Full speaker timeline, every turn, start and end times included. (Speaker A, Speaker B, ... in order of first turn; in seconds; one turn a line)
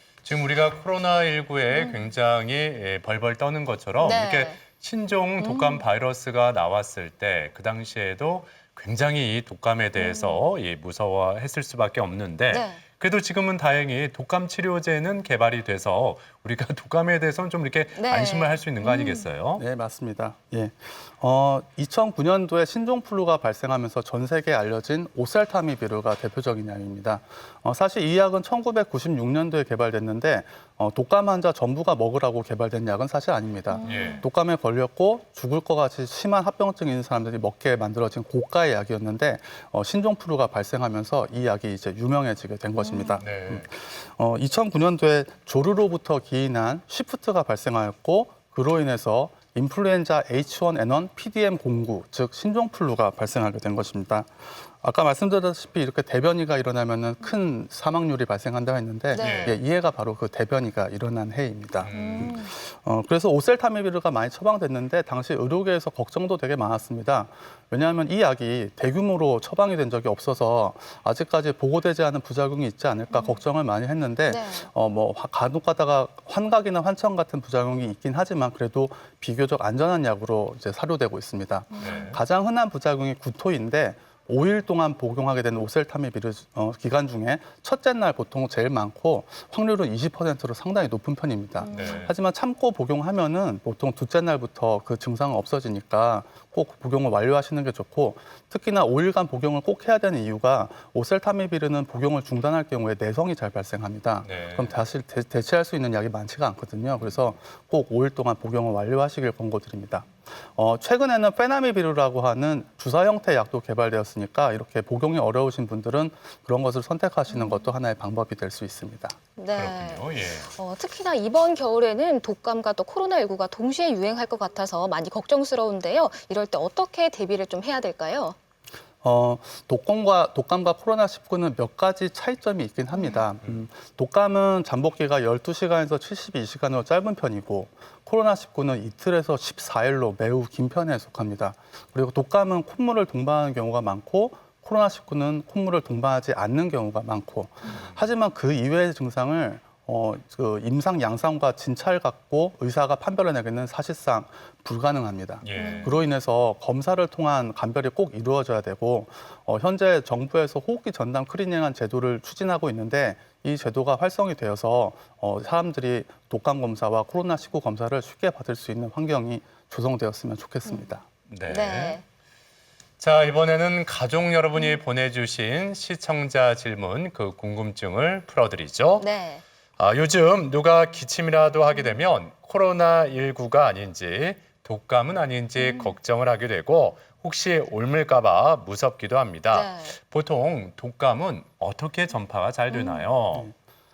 Speaker A: 0.2-19.6
Speaker B: 1.7-2.0
Speaker B: 4.0-4.6
Speaker B: 5.4-5.8
Speaker B: 9.9-10.4
Speaker B: 12.5-12.8
Speaker B: 17.9-19.2
Speaker C: 19.6-119.2
Speaker B: 33.7-34.2
Speaker A: 33.8-34.2
Speaker B: 42.8-43.2
Speaker A: 43.1-43.7
Speaker B: 59.1-59.5
Speaker A: 59.1-59.6
Speaker A: 61.8-62.4
Speaker B: 61.9-62.5
Speaker B: 73.1-73.4
Speaker B: 74.3-74.7
Speaker B: 81.7-82.1
Speaker A: 81.8-82.2
Speaker B: 91.6-92.1
Speaker A: 91.7-92.1
Speaker A: 104.2-104.8
Speaker B: 117.3-117.7
Speaker B: 119.3-128.3
Speaker A: 119.5-120.5
Speaker C: 129.0-171.0
Speaker B: 132.9-133.2
Speaker A: 155.4-156.0
Speaker B: 155.5-156.0
Speaker B: 170.7-172.0
Speaker A: 171.3-172.0
Speaker A: 173.0-179.1
Speaker B: 179.0-179.4
Speaker A: 179.8-193.5
Speaker B: 185.6-185.9
Speaker B: 189.5-189.9
Speaker B: 192.7-193.1